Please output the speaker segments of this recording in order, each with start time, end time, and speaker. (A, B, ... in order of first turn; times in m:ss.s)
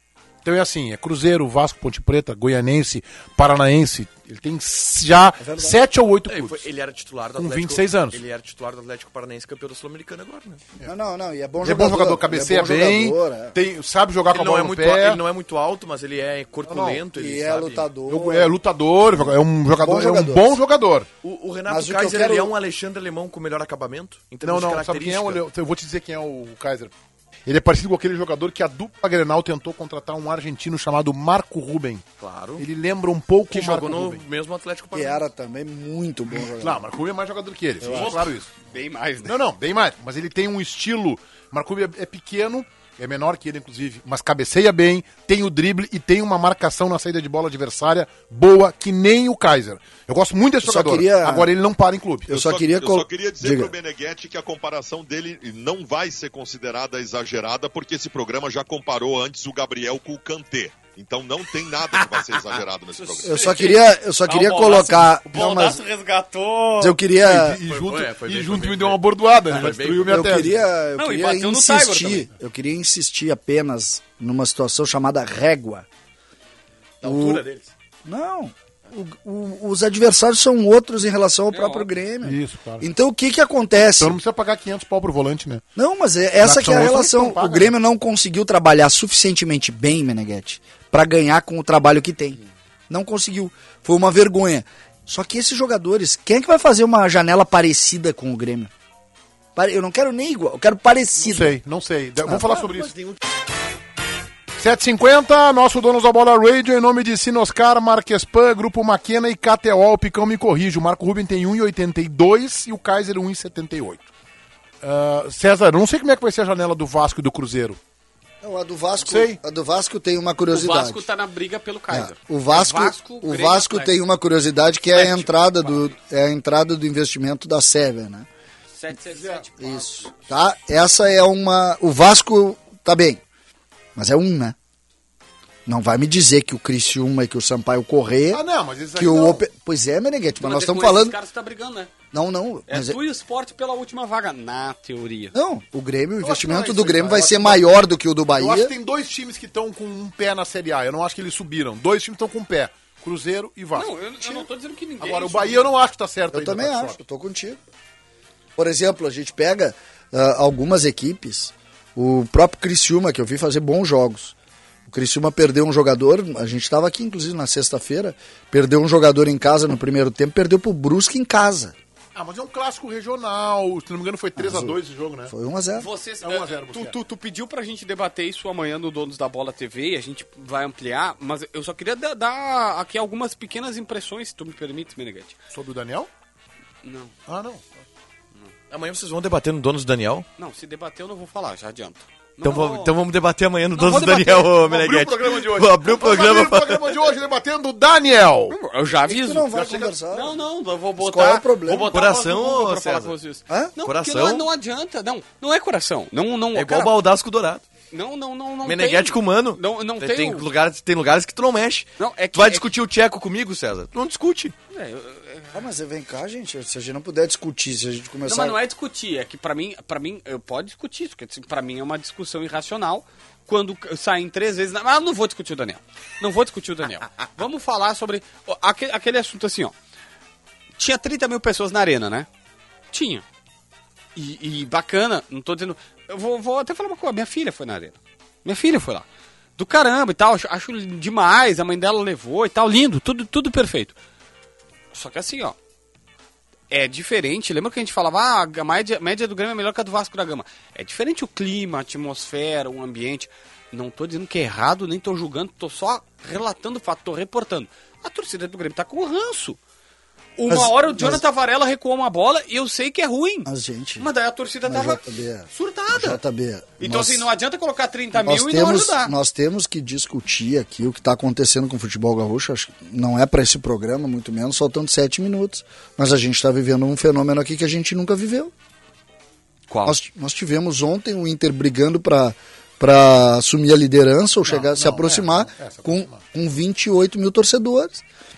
0:00.4-0:06.6 A
0:05.4-0:05.8 B
0:06.3-0:10.6 C
0:07.4-0:08.2 A
0:10.8-0:13.6 B
0:11.6-0:15.2 A
0:14.3-0:17.9 C
0:16.6-0:17.0 A
0:17.1-0:18.5 B
0:18.1-0:21.1 A
0:19.2-0:20.6 B
0:21.2-0:25.4 C
0:21.7-0:22.5 B
0:24.4-0:26.9 A
0:27.4-0:32.0 A
0:32.2-0:32.6 C
0:32.6-0:34.2 A
0:33.5-0:35.2 C
0:34.9-0:36.8 B
0:36.3-0:38.5 A
0:37.8-0:38.2 C
0:37.9-0:39.4 D
0:39.2-0:52.3 A
0:50.6-0:51.5 B
0:52.3-0:53.7 B
0:52.3-1:03.4 E
1:03.0-1:07.0 D
1:03.2-1:05.8 B
1:06.8-1:07.6 B
1:07.1-1:10.6 A
1:07.7-1:10.5 C
1:10.1-1:15.8 B
1:11.0-1:12.3 D
1:17.0-1:17.7 C
1:17.0-1:17.4 B
1:18.0-1:24.2 B
1:21.5-1:21.9 D
1:22.2-1:22.8 A
1:23.8-1:25.6 A
1:25.8-1:38.7 B
1:26.4-1:27.7 A
1:39.6-1:41.6 B
1:41.2-1:43.0 A
1:42.2-1:42.6 B
1:44.6-1:54.1 A
1:54.8-1:57.8 A
1:58.4-2:01.0 B
1:59.0-1:59.4 A
2:00.5-2:03.9 D
2:01.9-2:08.3 B
2:04.9-2:06.0 D
2:08.7-2:10.2 D
2:09.1-2:09.5 A
2:09.6-2:13.2 B
2:14.0-2:14.6 B
2:15.6-2:18.4 B
2:18.3-2:19.4 A
2:18.9-2:21.2 B
2:20.4-2:21.9 D
2:22.1-2:23.0 B
2:22.7-2:25.3 D
2:25.3-2:28.7 B
2:26.2-2:27.7 A
2:28.3-2:34.5 A
2:33.7-2:35.7 D
2:35.0-2:37.0 A
2:36.3-2:37.6 B
2:38.6-2:44.3 B
2:44.9-2:51.7 B
2:52.1-2:55.3 A
2:54.4-2:55.9 B
2:55.7-3:05.4 D
2:56.2-2:57.0 A
3:05.5-3:06.1 A
3:06.8-3:07.1 D
3:07.3-3:07.6 A
3:08.7-3:10.2 C
3:10.4-3:12.9 D
3:12.4-3:16.9 C
3:13.8-3:14.6 D
3:14.6-3:18.6 A
3:18.5-3:19.5 D
3:19.0-3:20.4 B
3:19.5-3:19.9 A
3:20.1-3:26.9 D
3:21.0-3:21.9 B
3:21.7-3:23.2 C
3:23.8-3:24.5 C
3:26.5-3:27.6 C
3:27.9-3:30.5 D
3:28.6-3:34.5 C
3:32.0-3:32.7 D
3:34.7-3:35.6 D
3:35.5-3:38.6 B
3:38.2-3:49.7 D
3:50.8-3:52.3 D
3:52.9-3:53.2 D
3:54.1-3:59.0 D
3:59.6-4:03.9 D
4:04.9-4:05.5 D
4:06.7-4:19.6 D
4:20.4-4:23.5 D
4:20.5-4:21.2 B
4:23.4-4:24.1 B
4:24.0-4:26.2 D
4:24.6-4:27.3 B
4:26.8-4:29.1 D
4:28.2-4:38.5 B
4:39.7-4:40.0 D
4:39.8-4:48.0 B
4:44.4-4:46.2 A